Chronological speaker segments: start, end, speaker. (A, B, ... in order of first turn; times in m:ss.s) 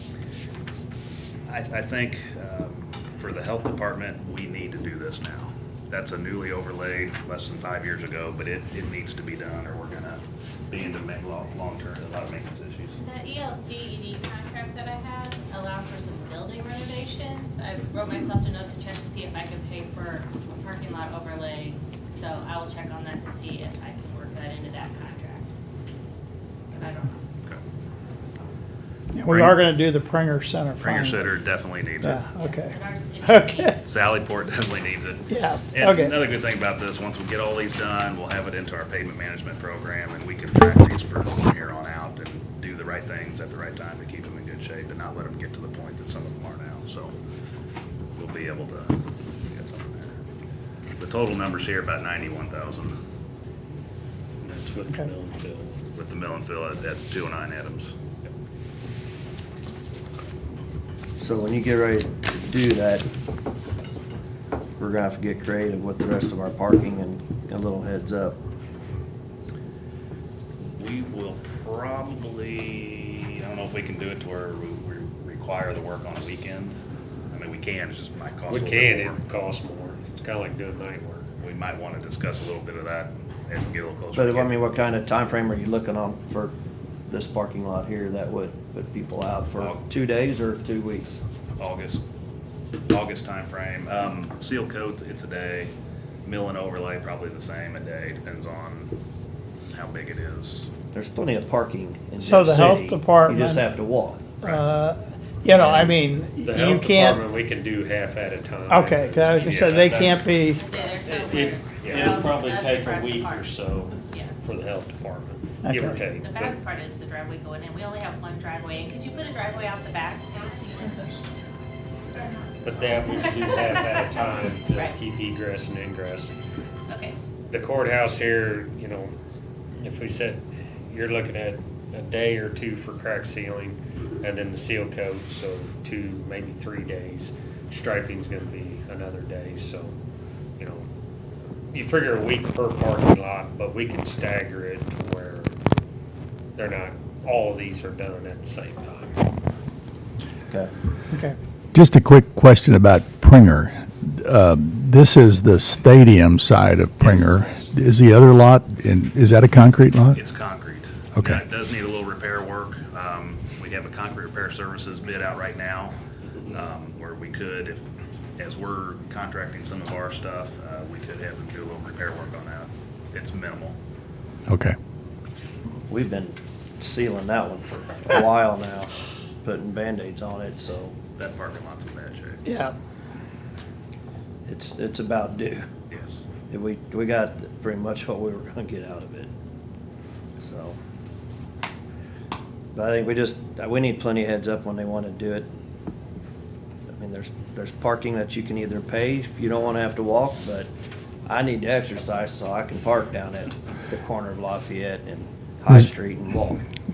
0:01.5-0:13.0 A
0:13.0-0:25.5 B
0:26.7-0:27.3 B
0:29.1-0:31.2 C
0:29.3-0:29.6 A
0:30.8-0:32.2 A
0:32.0-0:33.8 C
0:32.4-0:33.8 B
0:33.8-0:47.1 A
0:35.3-0:36.1 C
0:48.2-0:50.2 A
0:51.0-0:53.0 A
0:54.4-0:55.8 D
0:55.9-0:57.9 A
1:01.2-1:03.0 E
1:04.8-1:08.4 E
1:10.7-1:16.8 A
1:17.3-1:19.2 A
1:18.5-1:21.3 D
1:21.4-1:24.5 A
1:24.1-1:26.5 E
1:27.1-1:31.2 E
1:29.6-1:29.8 A
1:31.6-1:32.0 A
1:32.9-1:35.7 A
1:36.2-1:38.9 A
1:39.7-1:40.7 A
1:40.9-1:44.4 E
1:42.2-1:43.7 C
1:44.4-1:47.2 C
1:45.4-1:49.1 D
1:48.7-1:50.7 C
1:49.4-1:50.3 A
1:50.5-1:54.4 B
1:50.9-1:56.6 D
1:51.9-1:52.1 A
1:55.6-1:56.0 C
1:56.2-2:01.1 B
2:02.2-2:02.6 B
2:02.6-2:06.3 D
2:03.3-2:03.8 B
2:06.9-2:07.2 B
2:07.5-2:09.2 D
2:09.7-2:19.9 D
2:20.6-2:20.9 D
2:21.7-2:25.6 D
2:26.5-2:29.3 D
2:31.1-2:31.4 C
2:31.7-2:40.2 F
2:37.0-2:37.7 D
2:40.1-2:46.0 A
2:46.5-2:53.8 A
2:54.5-2:54.8 F
2:55.9-3:00.9 E
3:01.2-3:02.4 A
3:02.4-3:02.7 C
3:04.5-3:05.6 E
3:05.9-3:06.2 A
3:06.5-3:09.3 E
3:10.4-3:10.8 E
3:12.7-3:15.5 E
3:17.0-3:20.7 E
3:21.2-3:26.6 E